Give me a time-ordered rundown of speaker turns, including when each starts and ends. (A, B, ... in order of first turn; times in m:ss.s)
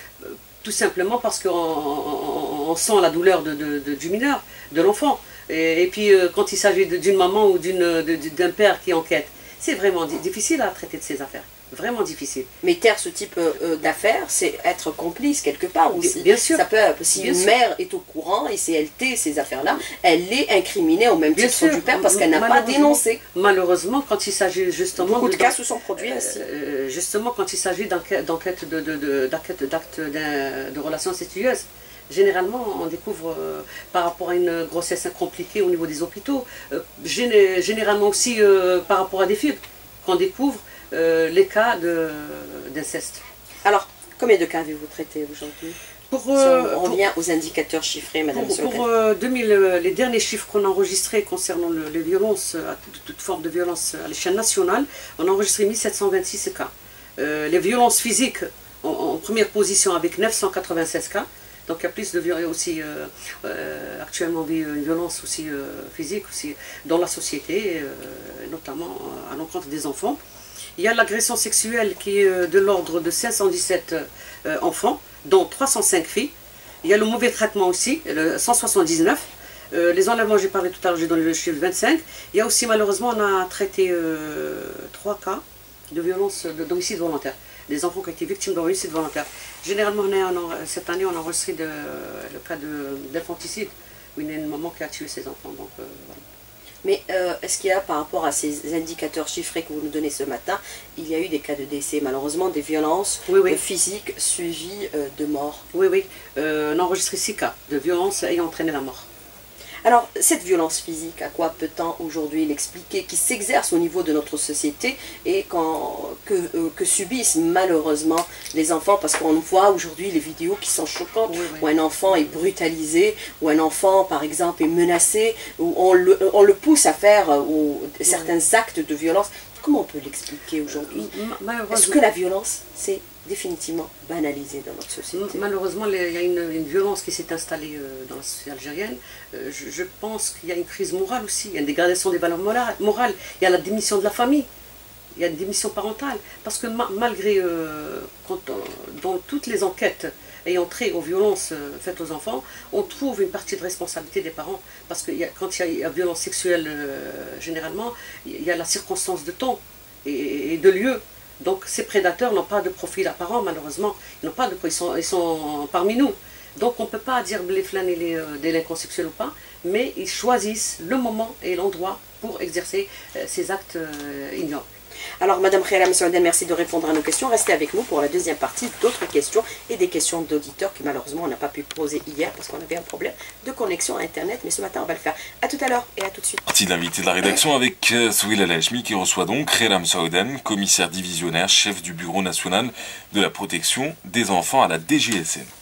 0:00.2-0:12.5 A
0:12.6-0:23.2 B
0:16.0-0:16.6 A
0:17.2-0:17.5 A
0:21.3-0:43.2 A
0:25.0-0:26.4 B
0:43.6-0:45.8 B
0:46.1-0:47.0 A
0:46.4-0:48.8 B
0:48.3-1:10.2 A
1:10.8-1:16.3 A
1:16.8-1:36.2 A
1:36.8-1:45.6 B
1:43.3-1:43.6 A
1:45.7-1:49.1 A
1:49.8-2:11.1 B
2:01.1-2:01.7 A
2:08.1-2:08.3 A
2:10.7-2:12.0 A
2:11.7-2:15.4 B
2:15.1-2:24.5 A
2:25.2-2:54.6 A
2:55.2-3:06.4 B
3:06.5-3:15.5 C